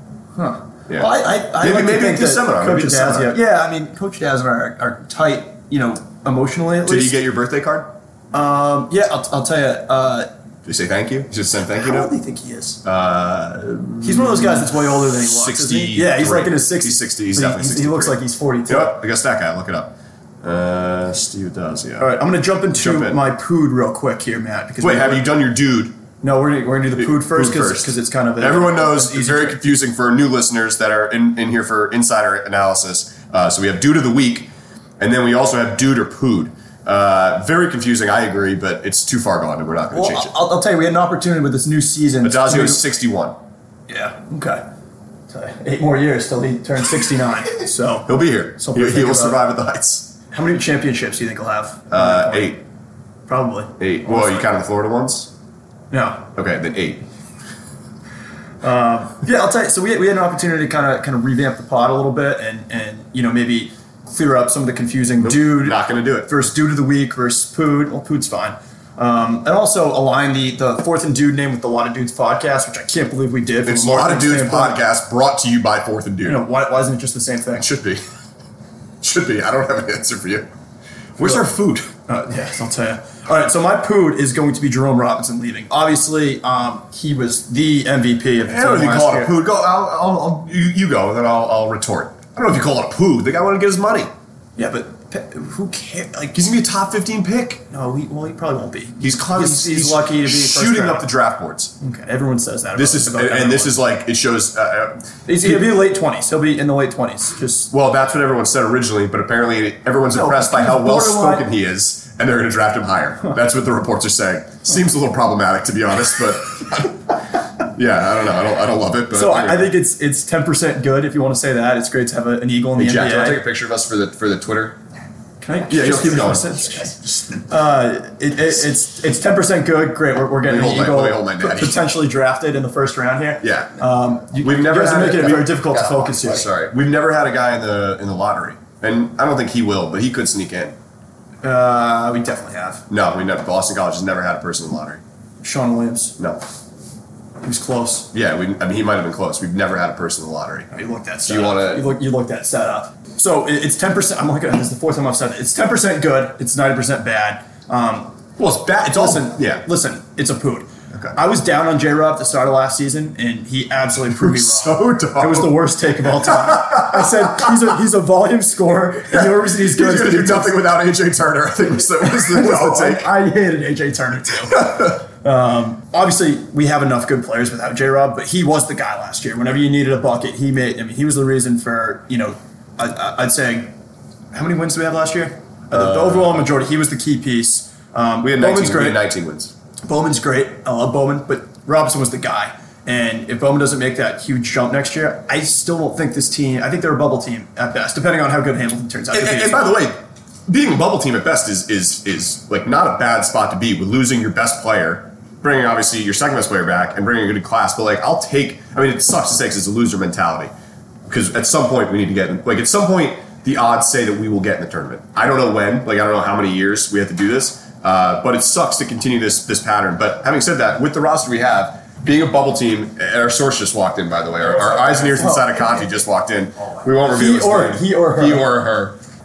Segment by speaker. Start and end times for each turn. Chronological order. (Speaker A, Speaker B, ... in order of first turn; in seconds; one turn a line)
Speaker A: 0.4-7.2
Speaker B: 0.9-3.4
Speaker B: 6.9-7.9
Speaker A: 8.3-10.3
Speaker B: 10.7-12.1
Speaker A: 11.8-12.8
Speaker B: 12.8-22.2
Speaker A: 14.0-19.0
Speaker A: 22.0-25.3
Speaker B: 22.7-23.2
Speaker B: 24.8-26.0
Speaker A: 26.2-29.6
Speaker B: 27.0-40.3
Speaker A: 39.9-42.8
Speaker B: 42.2-43.4
Speaker A: 43.9-44.6
Speaker A: 45.3-49.4
Speaker B: 48.1-50.1
Speaker A: 50.3-52.6
Speaker B: 51.9-52.6
Speaker A: 53.3-54.5
Speaker B: 53.8-55.3
Speaker A: 55.9-56.2
Speaker B: 56.3-57.0
Speaker A: 58.6-74.8
Speaker B: 65.2-66.3
Speaker B: 73.7-76.4
Speaker A: 76.2-77.7
Speaker B: 77.6-78.0
Speaker B: 79.0-80.5
Speaker B: 81.2-81.9
Speaker A: 81.2-81.5
Speaker A: 82.1-89.3
Speaker B: 88.5-94.1
Speaker A: 94.6-96.4
Speaker B: 96.3-97.6
Speaker A: 97.7-101.1
Speaker B: 99.0-101.7
Speaker A: 101.8-103.8
Speaker B: 102.8-105.8
Speaker A: 105.3-107.7
Speaker B: 107.7-119.7
Speaker A: 110.1-111.5
Speaker A: 119.1-123.4
Speaker B: 122.8-124.8
Speaker A: 125.4-136.5
Speaker B: 125.7-127.4
Speaker B: 130.5-131.8
Speaker B: 133.4-133.8
Speaker B: 134.3-140.8
Speaker A: 141.4-142.8
Speaker B: 142.9-145.0
Speaker A: 145.4-146.2
Speaker A: 147.4-148.1
Speaker B: 148.1-150.7
Speaker A: 150.7-170.6
Speaker B: 151.3-151.9
Speaker B: 158.4-159.6
Speaker B: 164.1-165.5
Speaker B: 166.3-167.3
Speaker B: 169.1-173.1
Speaker A: 172.1-183.7
Speaker B: 174.6-174.9
Speaker A: 184.3-189.0
Speaker B: 185.7-186.5
Speaker B: 188.2-189.5
Speaker A: 189.9-199.8
Speaker B: 199.1-210.5
Speaker B: 211.1-229.0
Speaker A: 224.8-225.6
Speaker A: 227.1-228.5